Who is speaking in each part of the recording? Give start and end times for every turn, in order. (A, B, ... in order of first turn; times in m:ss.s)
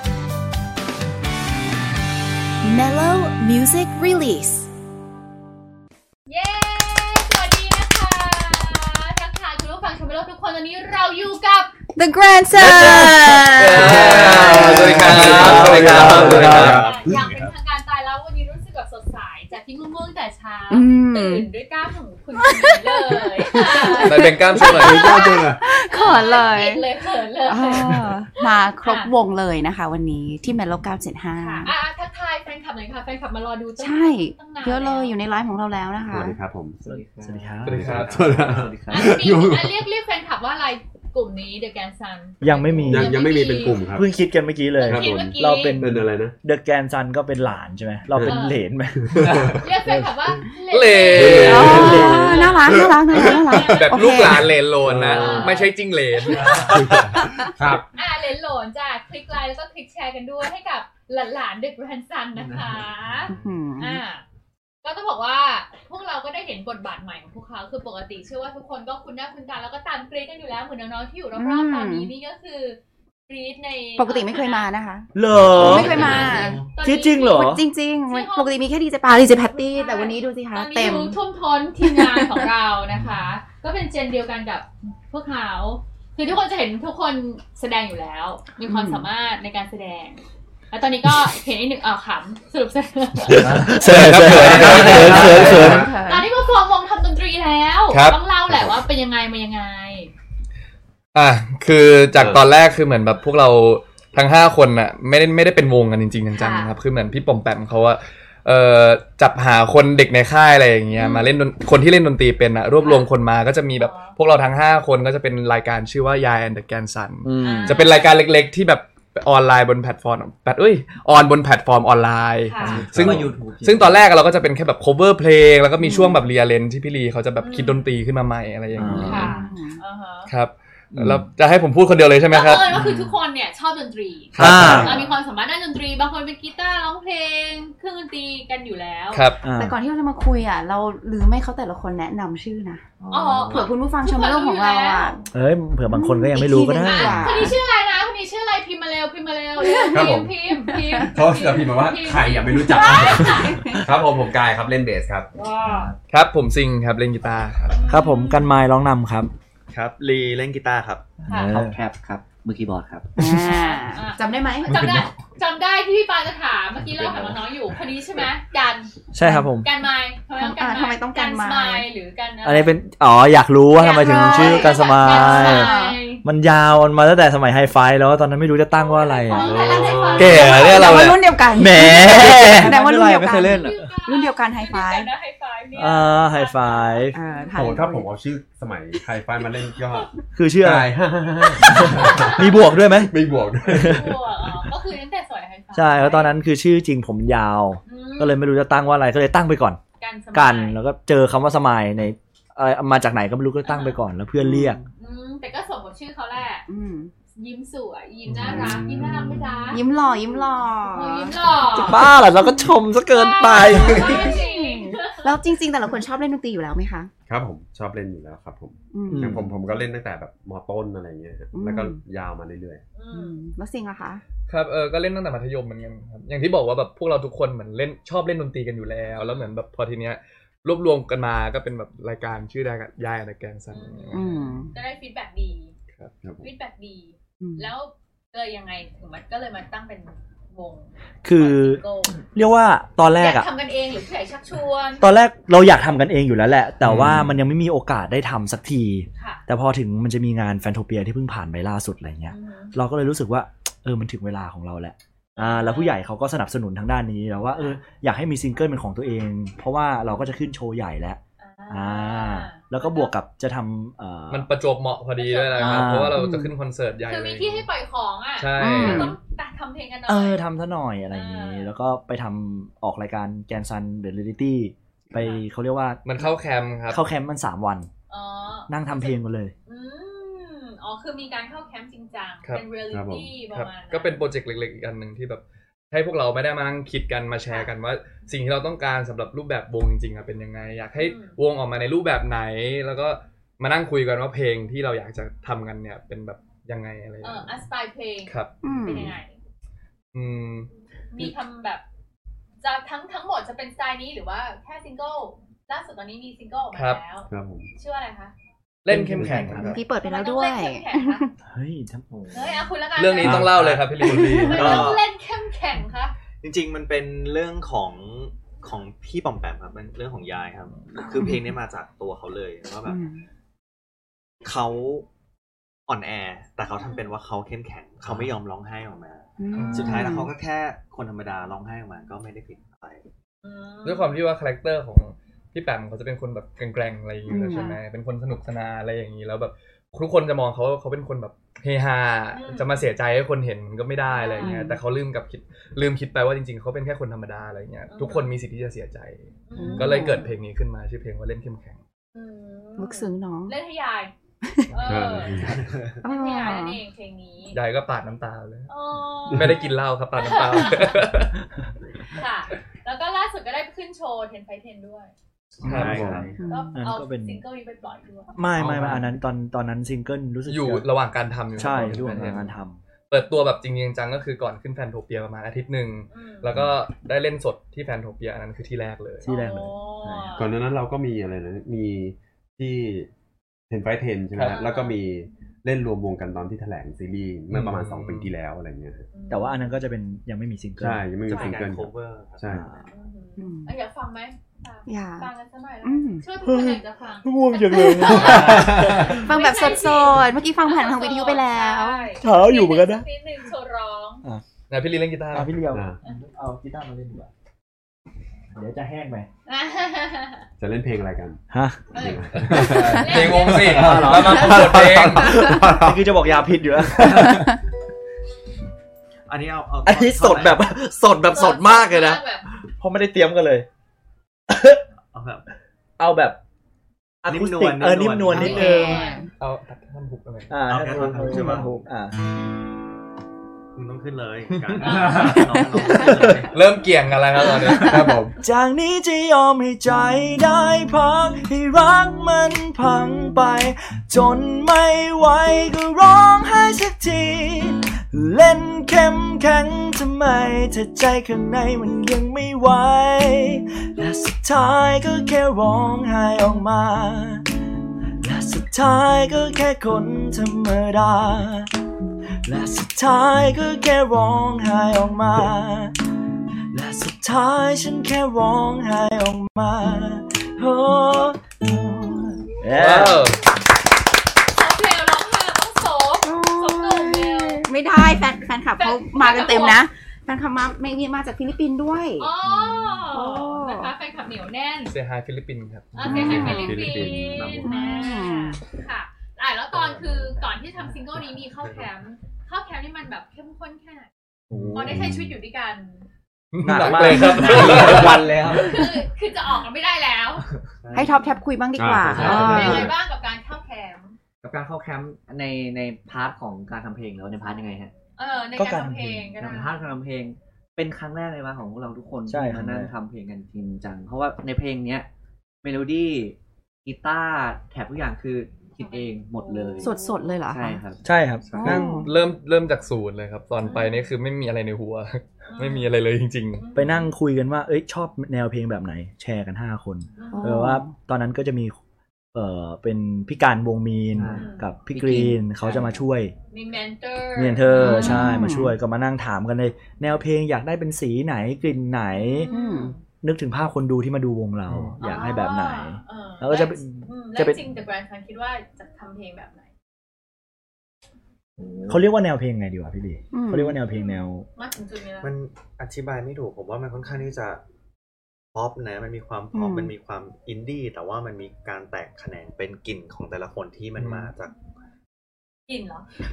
0:02.6-0:03.6 A
0:06.2-0:11.7 B
0:11.9-0:14.7 A
0:12.6-0:16.9 C
0:12.6-0:16.8 D
0:13.7-0:17.5 E
0:15.5-0:25.1 B
0:15.8-0:17.5 F
0:20.7-0:21.5 A
0:23.7-0:26.8 A
0:24.0-0:25.1 C
0:24.5-0:25.6 E
0:25.6-0:29.1 B
0:27.4-0:31.7 A
0:31.3-0:35.2 B
0:33.8-0:36.4 A
0:36.0-0:36.8 E
0:36.8-0:39.1 G
0:36.9-0:38.0 D
0:37.6-0:38.3 C
0:37.7-0:39.8 E
0:38.9-0:43.8 B
0:42.4-0:43.2 D
0:42.8-0:44.1 E
0:43.9-0:49.4 D
0:44.8-0:45.9 B
0:44.8-0:46.4 E
0:48.1-0:48.4 E
0:48.2-0:48.6 B
0:49.0-0:50.4 E
0:49.2-0:49.5 C
0:49.6-0:54.2 B
0:50.7-0:52.0 C
0:51.1-0:53.6 E
0:51.5-0:54.4 A
0:53.6-0:57.2 C
0:54.8-0:55.6 E
0:55.0-0:56.6 B
0:56.4-0:56.7 F
0:56.6-0:57.8 E
0:57.9-1:04.2 B
1:02.3-1:03.3 G
1:03.3-1:04.0 A
1:04.8-1:14.7 B
1:11.4-1:12.1 A
1:14.0-1:16.6 A
1:15.1-1:16.2 D
1:15.4-1:16.7 F
1:15.6-1:16.3 E
1:15.8-1:18.6 B
1:16.8-1:17.6 D
1:17.2-1:21.2 A
1:19.5-1:33.7 B
1:21.8-1:22.4 A
1:28.7-1:29.1 A
1:33.3-1:35.9 D
1:33.8-1:35.8 C
1:34.3-1:36.0 E
1:34.8-1:35.1 G
1:35.5-1:36.3 A
1:35.9-1:40.1 B
1:37.9-1:38.2 C
1:38.5-1:38.8 E
1:41.1-2:09.3 C
1:42.2-1:42.4 E
1:46.3-1:46.8 B
1:51.0-1:51.3 A
1:52.8-1:53.1 B
1:53.8-1:54.1 B
1:57.2-1:57.8 G
1:57.4-1:58.1 B
2:02.4-2:02.9 B
2:02.6-2:03.3 E
2:02.7-2:04.0 G
2:05.8-2:06.1 A
2:07.4-2:07.9 B
2:08.8-2:09.3 D
2:08.9-2:10.3 B
2:09.1-2:09.8 A
2:10.3-2:12.8 C
2:10.9-2:11.2 D
2:12.3-2:19.3 B
2:12.8-2:13.1 G
2:14.3-2:14.9 C
2:14.4-2:15.0 D
2:14.4-2:14.8 G
2:19.1-2:19.4 C
2:19.4-2:19.8 D
2:19.6-2:22.8 A
2:23.0-2:23.6 G
2:23.1-2:25.2 B
2:23.5-2:25.2 A
2:25.3-2:27.3 D
2:25.9-2:27.6 A
2:26.8-2:33.8 B
2:29.6-2:30.1 A
2:29.9-2:30.3 E
2:31.1-2:35.3 E
2:35.3-2:35.9 B
2:35.6-2:36.0 G
2:36.1-2:37.8 C
2:37.7-2:38.4 B
2:37.9-2:39.3 D
2:39.7-2:41.1 F
2:41.2-2:41.6 B
2:41.3-2:41.8 D
2:41.3-2:43.1 G
2:43.2-2:43.5 D
2:43.2-2:44.7 A
2:43.3-2:48.9 B
2:44.7-2:45.1 E
2:47.0-2:47.2 F
2:49.1-2:49.7 D
2:49.2-2:49.5 A
2:49.5-2:52.7 B
2:50.4-2:51.8 A
2:52.4-2:59.6 D
2:53.7-2:56.2 B
2:54.3-2:56.0 A
2:58.7-3:01.1 B
2:59.3-3:00.7 E
3:00.1-3:01.2 C
3:00.4-3:05.1 A
3:01.5-3:03.8 D
3:01.7-3:02.7 G
3:03.3-3:07.8 B
3:03.3-3:03.7 G
3:05.7-3:07.2 D
3:07.1-3:08.1 A
3:07.5-3:14.2 E
3:10.3-3:10.9 D
3:11.4-3:12.5 B
3:11.6-3:13.1 D
3:13.6-3:16.4 B
3:13.7-3:14.1 D
3:15.7-3:19.8 D
3:17.8-3:18.4 B
3:20.0-3:20.8 B
3:20.3-3:24.8 D
3:23.6-3:24.0 B
3:25.0-3:26.7 B
3:26.7-3:27.1 A
3:27.4-3:29.8 B
3:28.3-3:29.8 E
3:29.7-3:31.3 A
3:30.9-3:32.1 B
3:31.8-3:34.2 D
3:31.9-3:32.7 A
3:33.0-3:35.4 B
3:33.7-3:37.1 A
3:33.9-3:34.3 E
3:37.3-3:42.8 E
3:38.9-3:39.3 A
3:39.1-3:39.5 D
3:41.5-3:42.0 A
3:42.9-3:43.4 B
3:43.1-3:44.2 A
3:44.5-3:54.3 C
3:49.2-3:49.5 B
3:53.7-3:55.7 B
3:54.1-3:54.7 A
3:56.2-3:56.5 E
3:56.4-4:02.2 B
3:57.4-3:57.7 A
4:01.2-4:03.5 D
4:03.2-4:05.1 B
4:05.0-4:24.5 D
4:06.8-4:07.4 E
4:09.1-4:09.4 B
4:12.3-4:12.7 B
4:15.3-4:16.0 B
4:21.4-4:23.1 B
4:24.3-4:27.7 C
4:25.2-4:25.9 B
4:25.6-4:26.2 D
4:26.1-4:26.5 A
4:27.1-4:30.4 B
4:28.4-4:29.1 C
4:28.6-4:29.0 A
4:28.8-4:29.1 D
4:30.1-4:36.3 D
4:31.1-4:31.7 B
4:36.0-4:37.0 C
4:36.9-4:37.9 D
4:38.1-4:44.2 B
4:38.7-4:39.5 D
4:42.9-4:43.3 E
4:43.5-4:57.6 C
4:47.4-4:47.7 B
4:51.0-4:51.4 B
4:57.2-4:59.4 B
4:58.3-4:58.5 C
4:58.6-4:59.2 A
5:00.1-5:00.7 C
5:01.1-5:01.8 B
5:02.6-5:08.3 B
5:06.7-5:07.0 C
5:07.3-5:07.7 E
5:08.8-5:09.8 C
5:08.9-5:09.7 D
5:09.1-5:09.6 E
5:09.6-5:11.3 A
5:09.9-5:11.2 B
5:11.4-5:12.0 D
5:12.1-5:12.6 G
5:12.3-5:13.4 B
5:13.0-5:14.9 C
5:13.2-5:13.5 D
5:13.3-5:15.0 F
5:14.0-5:14.6 A
5:14.2-5:16.1 B
5:16.4-5:23.0 F
5:21.1-5:21.4 A
5:22.8-5:23.2 A
5:24.4-5:25.0 F
5:25.9-5:33.0 F
5:29.4-5:30.3 A
5:29.5-5:30.0 B
5:29.5-5:30.0 C
5:33.4-5:34.1 B
5:33.8-5:51.8 C
5:37.3-5:37.7 A
5:37.5-5:37.8 B
5:42.3-5:42.8 B
5:44.1-5:44.7 B
5:47.9-5:48.3 B
5:49.5-5:50.2 B
5:49.6-5:50.3 A
5:52.1-5:54.1 B
5:52.8-5:53.5 A
5:54.4-5:54.7 A
5:54.7-5:55.4 B
5:54.8-5:55.7 E
5:55.4-5:56.0 F
5:56.0-5:56.8 A
5:56.0-5:57.6 B
5:57.5-5:58.7 C
5:58.7-5:59.6 B
5:59.3-6:01.4 C
6:00.2-6:00.9 B
6:02.1-6:05.1 B
6:05.6-6:06.4 F
6:05.6-6:06.4 E
6:05.6-6:06.1 D
6:05.6-6:06.3 C
6:06.4-6:06.8 A
6:06.4-6:08.3 B
6:06.8-6:07.4 D
6:08.3-6:10.9 D
6:08.6-6:09.0 C
6:10.4-6:12.5 C
6:11.5-6:12.8 D
6:11.6-6:12.4 G
6:13.1-6:19.3 C
6:16.1-6:16.5 B
6:19.2-6:20.4 D
6:19.2-6:20.5 B
6:20.3-6:23.1 E
6:23.7-6:29.1 E
6:24.3-6:24.6 C
6:24.5-6:25.0 B
6:27.5-6:28.3 C
6:29.1-6:29.7 B
6:29.3-6:31.5 D
6:30.8-6:32.7 E
6:31.2-6:32.9 F
6:32.9-6:44.2 B
6:33.4-6:33.7 A
6:34.9-6:35.3 A
6:35.8-6:36.2 A
6:36.4-6:39.2 D
6:38.0-6:39.2 E
6:39.2-6:42.1 A
6:42.2-6:43.0 D
6:44.7-6:45.6 C
6:45.3-6:47.3 D
6:45.7-6:46.0 E
6:48.5-6:49.3 D
6:49.5-6:50.4 B
6:50.6-6:57.5 E
6:51.5-6:51.8 D
6:51.9-6:54.1 B
6:52.3-6:55.3 C
6:52.4-6:53.0 D
6:53.6-6:57.4 D
6:59.3-7:00.7 F
6:59.8-7:02.2 D
7:01.3-7:02.4 B
7:02.8-7:03.6 D
7:04.5-7:04.8 D
7:05.1-7:05.4 F
7:06.0-7:06.4 D
7:07.2-7:09.0 D
7:07.3-7:09.0 F
7:08.3-7:09.3 B
7:08.4-7:09.3 A
7:09.4-7:10.5 C
7:10.5-7:12.1 D
7:10.6-7:11.8 F
7:13.7-7:16.7 F
7:14.5-7:15.5 C
7:14.8-7:15.2 B
7:15.1-7:16.4 D
7:16.5-7:18.1 C
7:17.6-7:37.5 D
7:17.7-7:18.4 E
7:38.2-7:41.7 D
7:42.4-7:46.0 D
7:46.7-7:53.3 D
7:52.7-7:53.4 C
7:54.5-7:57.7 B
7:56.2-8:02.3 A
7:58.8-7:59.8 B
8:02.2-8:04.9 B
8:03.1-8:03.9 A
8:04.8-8:06.4 C
8:05.9-8:14.1 B
8:06.0-8:07.8 E
8:06.0-8:06.8 A
8:06.6-8:07.5 G
8:07.6-8:08.6 A
8:09.8-8:10.8 F
8:11.6-8:11.9 F
8:14.5-8:15.4 E
8:14.7-8:16.0 B
8:16.5-8:18.3 C
8:16.6-8:18.1 D
8:17.2-8:18.7 G
8:18.5-8:20.4 B
8:20.8-8:21.2 F
8:20.9-8:22.9 A
8:21.8-8:22.9 E
8:22.1-8:22.4 G
8:22.2-8:24.2 B
8:24.4-8:27.9 G
8:28.2-8:29.8 B
8:28.6-8:29.3 D
8:29.4-8:35.1 G
8:32.3-8:32.9 D
8:35.6-8:40.0 G
8:38.8-8:40.4 B
8:39.8-8:40.8 A
8:40.5-8:41.0 G
8:41.0-8:41.8 D
8:41.4-8:41.7 F
8:41.6-8:42.1 A
8:41.6-8:46.6 C
8:43.6-8:44.0 B
8:45.5-8:45.9 B
8:46.6-8:47.1 B
8:46.7-8:51.8 D
8:50.2-8:50.7 B
8:50.3-8:50.9 A
8:52.3-8:56.3 D
8:54.1-8:56.0 G
8:54.3-8:54.7 B
8:56.5-8:58.4 B
8:57.4-9:02.5 D
8:57.8-8:58.8 A
9:02.1-9:03.0 B
9:02.5-9:02.9 A
9:03.2-9:07.6 D
9:04.7-9:04.9 C
9:05.0-9:09.7 B
9:11.6-9:12.0 G
9:11.9-9:14.4 D
9:13.3-9:13.7 A
9:13.9-9:15.3 B
9:15.2-9:17.6 F
9:18.5-9:24.5 F
9:19.5-9:19.9 A
9:24.0-9:24.3 C
9:25.7-9:26.1 B